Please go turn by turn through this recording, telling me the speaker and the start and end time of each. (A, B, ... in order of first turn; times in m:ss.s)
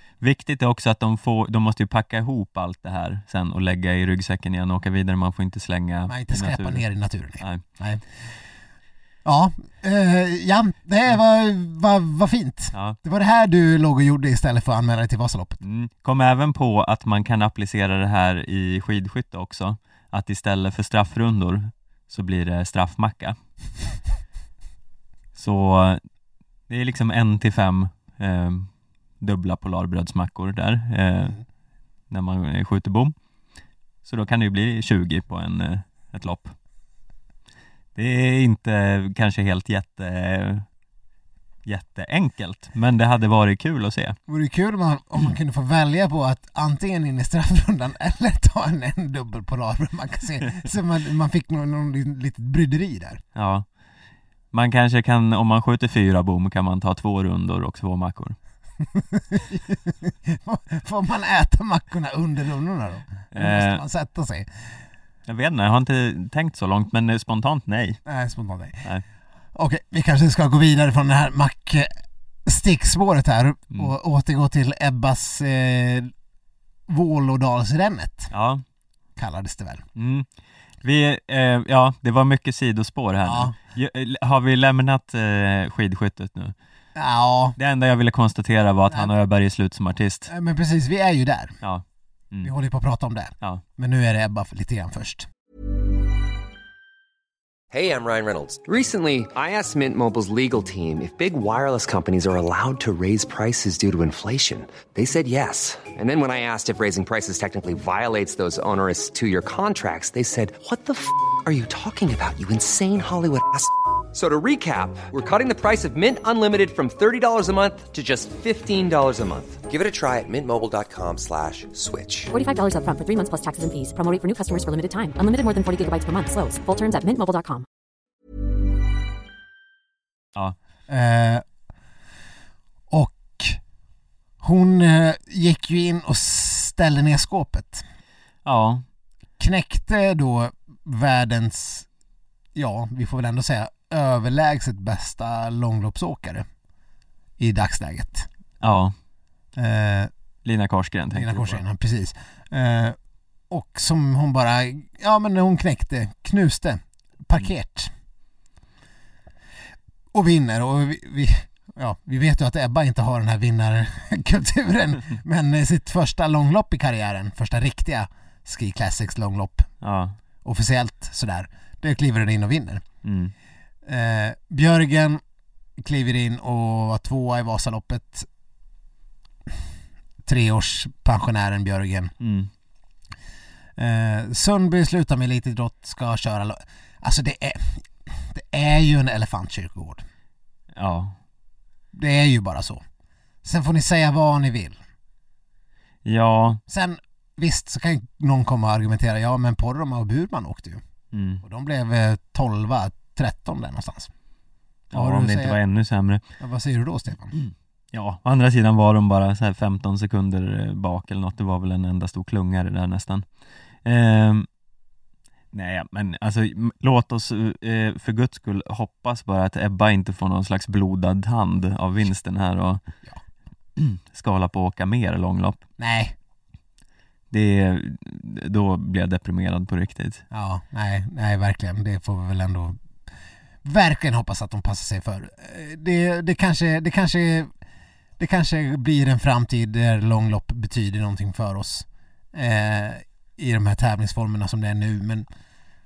0:00.2-0:06.8 A
0:06.1-0:08.0 B
0:09.2-0:15.6 B
0:15.6-0:23.4 A
0:25.4-0:26.0 A
0:26.7-0:28.7 A
0:29.2-0:31.4 A
0:32.1-0:33.1 A
0:34.0-0:36.6 A
0:38.0-0:40.7 A
0:41.7-0:44.2 A
0:44.3-0:53.2 B
0:53.4-0:53.7 A
0:54.5-0:58.4 A
0:58.9-1:04.7 B
1:03.3-1:03.8 A
1:05.3-1:08.0 A
1:08.0-1:08.8 B
1:09.6-1:11.9 B
1:12.5-1:16.1 B
1:16.9-1:18.3 B
1:18.3-1:18.6 A
1:19.2-1:19.8 B
1:20.0-1:20.3 A
1:20.8-1:26.6 A
1:23.2-1:23.6 B
1:27.0-1:27.6 B
1:27.6-1:30.3 A
1:30.3-1:31.6 B
1:31.6-1:32.5 A
1:32.4-1:35.3 B
1:37.7-2:02.3 C
2:02.3-2:07.6 D
2:10.9-2:11.4 B
2:12.9-2:13.6 B
2:14.4-2:17.8 B
2:18.4-2:18.8 A
2:19.4-2:21.9 B
2:22.6-2:26.5 B
2:27.4-2:28.3 B
2:28.6-2:28.9 A
2:29.6-2:30.1 B
2:30.4-2:31.6 A
2:31.1-2:33.0 B
2:33.5-2:37.9 B
2:40.1-2:49.7 B
2:49.8-2:50.2 A
2:50.4-2:52.8 B
2:53.0-2:53.3 A
2:53.8-2:55.2 B
2:55.8-2:58.3 B
3:00.2-3:02.1 B
3:02.2-3:02.5 A
3:03.8-3:10.0 B
3:10.8-3:11.2 A
3:11.9-3:12.8 B
3:13.4-3:14.8 B
3:16.0-3:16.6 A
3:16.7-3:20.8 B
3:21.1-3:21.4 A
3:21.4-3:24.1 B
3:24.9-3:26.2 A
3:24.9-3:25.6 B
3:26.4-3:27.3 B
3:27.3-3:33.2 A
3:33.8-3:34.5 A
3:35.5-3:42.8 A
3:43.8-3:45.6 A
3:45.8-3:46.2 B
3:47.3-3:50.2 A
3:50.3-3:52.8 B
3:53.6-3:57.5 B
3:58.2-4:05.3 B